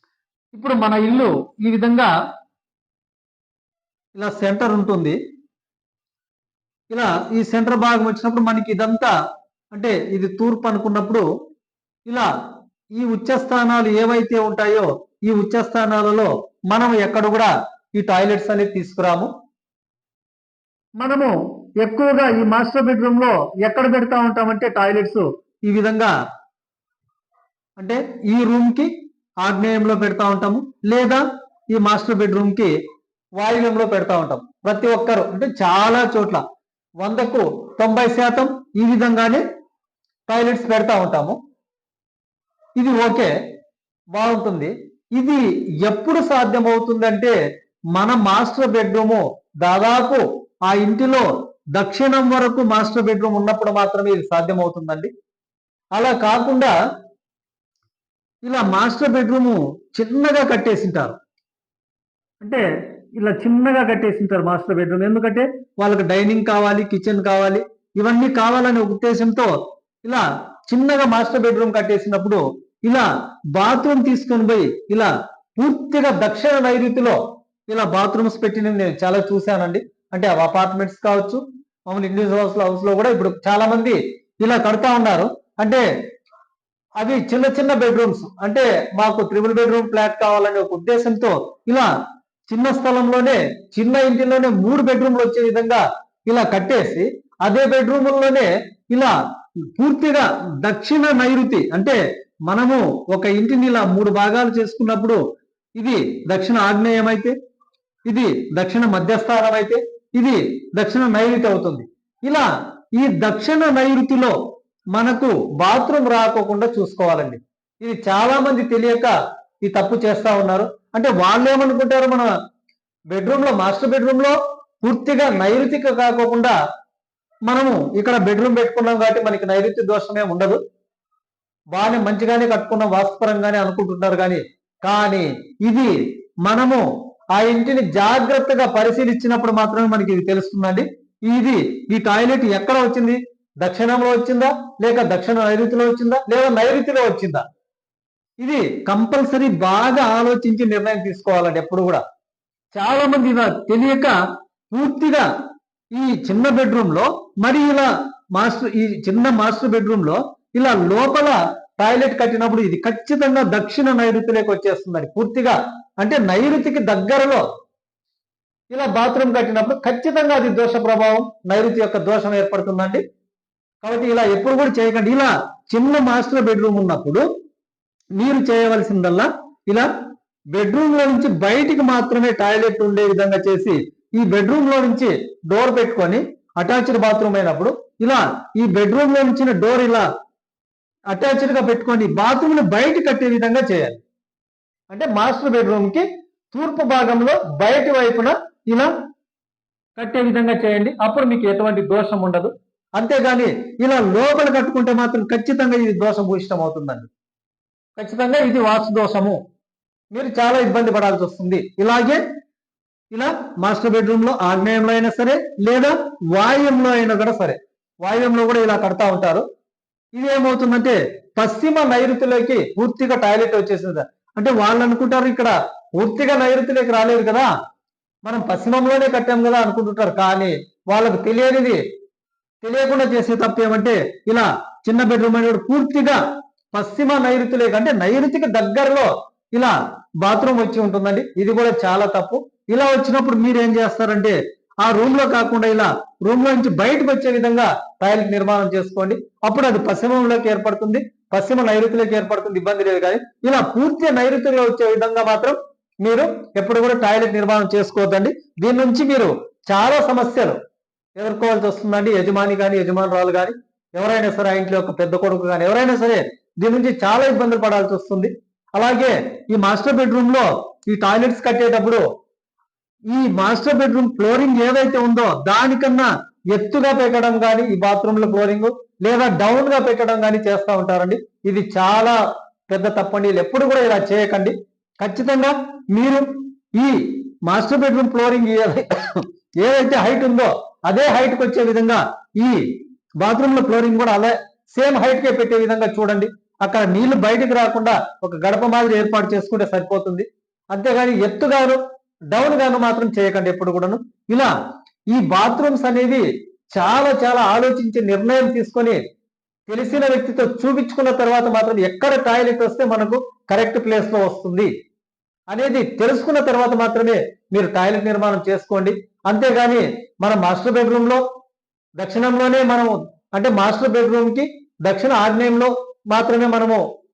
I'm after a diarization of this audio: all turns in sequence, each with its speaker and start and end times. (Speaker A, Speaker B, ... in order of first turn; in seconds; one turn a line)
Speaker A: 0.5-2.1
Speaker A: 4.2-5.2
Speaker A: 6.9-9.1
Speaker A: 9.7-11.2
Speaker A: 12.9-19.3
Speaker A: 21.0-26.1
Speaker A: 27.8-28.9
Speaker A: 29.4-32.7
Speaker A: 33.4-36.4
Speaker A: 37.0-39.4
Speaker A: 40.3-41.4
Speaker A: 42.8-43.3
Speaker A: 44.1-47.3
Speaker A: 47.9-55.1
Speaker A: 56.0-56.7
Speaker A: 58.5-61.2
Speaker A: 63.2-69.5
Speaker A: 70.0-77.2
Speaker A: 77.7-85.8
Speaker A: 87.0-91.9
Speaker A: 92.5-99.1
Speaker A: 99.7-105.2
Speaker A: 105.8-107.3
Speaker A: 108.1-114.4
Speaker A: 114.9-119.1
Speaker A: 119.6-122.3
Speaker A: 123.1-126.5
Speaker A: 127.5-130.6
Speaker A: 131.7-135.9
Speaker A: 136.4-147.4
Speaker A: 148.4-152.0
Speaker A: 152.8-154.1
Speaker A: 154.7-155.3
Speaker A: 155.9-167.5
Speaker A: 168.7-173.0
Speaker A: 173.8-177.3
Speaker A: 178.2-179.9
Speaker A: 180.5-190.1
Speaker A: 191.1-194.0
Speaker A: 194.9-198.9
Speaker A: 200.0-207.1
Speaker A: 208.0-209.4
Speaker A: 210.1-212.2
Speaker A: 213.1-219.4
Speaker A: 220.2-227.5
Speaker A: 228.2-231.8
Speaker A: 232.6-236.2
Speaker A: 236.7-260.6
Speaker A: 261.2-272.0
Speaker A: 273.1-282.2
Speaker A: 282.7-292.6
Speaker A: 293.2-301.8
Speaker A: 302.3-304.5
Speaker A: 305.1-309.0
Speaker A: 309.7-314.7
Speaker A: 315.5-321.2
Speaker A: 322.0-326.8